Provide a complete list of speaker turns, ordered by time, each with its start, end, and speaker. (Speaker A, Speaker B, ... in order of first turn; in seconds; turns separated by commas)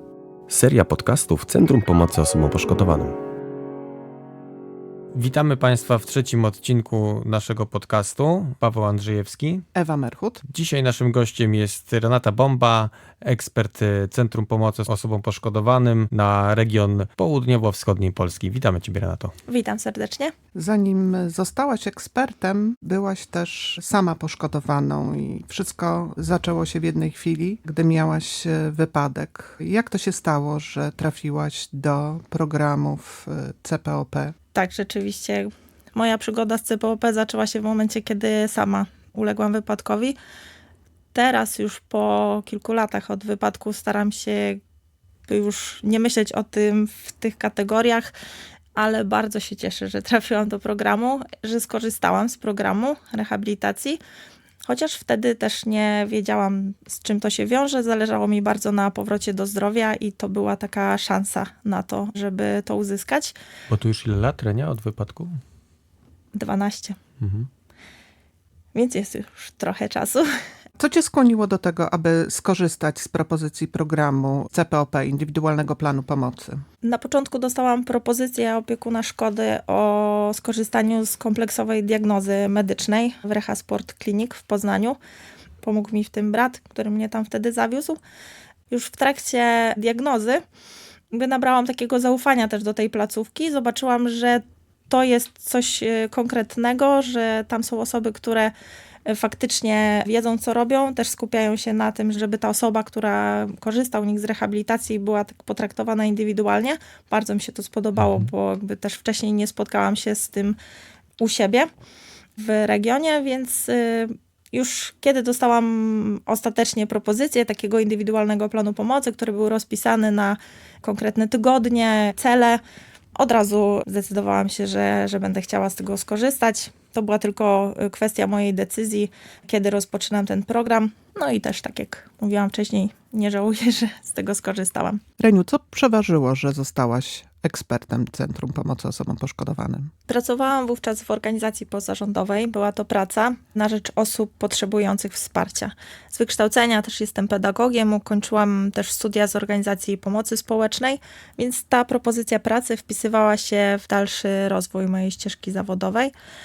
Speaker A: 0.5-3.1, Speaker B: 5.1-9.7, Speaker C: 9.8-10.4, Speaker B: 10.5-19.3, Speaker D: 19.5-20.3, Speaker C: 20.6-34.3, Speaker D: 34.5-40.2, Speaker D: 41.1-44.6, Speaker D: 45.3-48.1, Speaker D: 48.8-54.0, Speaker D: 54.7-63.3, Speaker B: 63.7-65.3, Speaker D: 66.3-67.0, Speaker B: 67.2-67.5, Speaker D: 68.7-70.3, Speaker C: 70.8-76.6, Speaker D: 76.8-85.0, Speaker D: 85.6-88.0, Speaker D: 88.7-90.4, Speaker D: 91.1-98.5, Speaker D: 99.1-110.6, Speaker B: 108.0-108.3, Speaker D: 111.2-111.7, Speaker D: 112.4-122.6, Speaker D: 123.2-135.0, Speaker C: 135.2-139.9, Speaker D: 140.1-156.1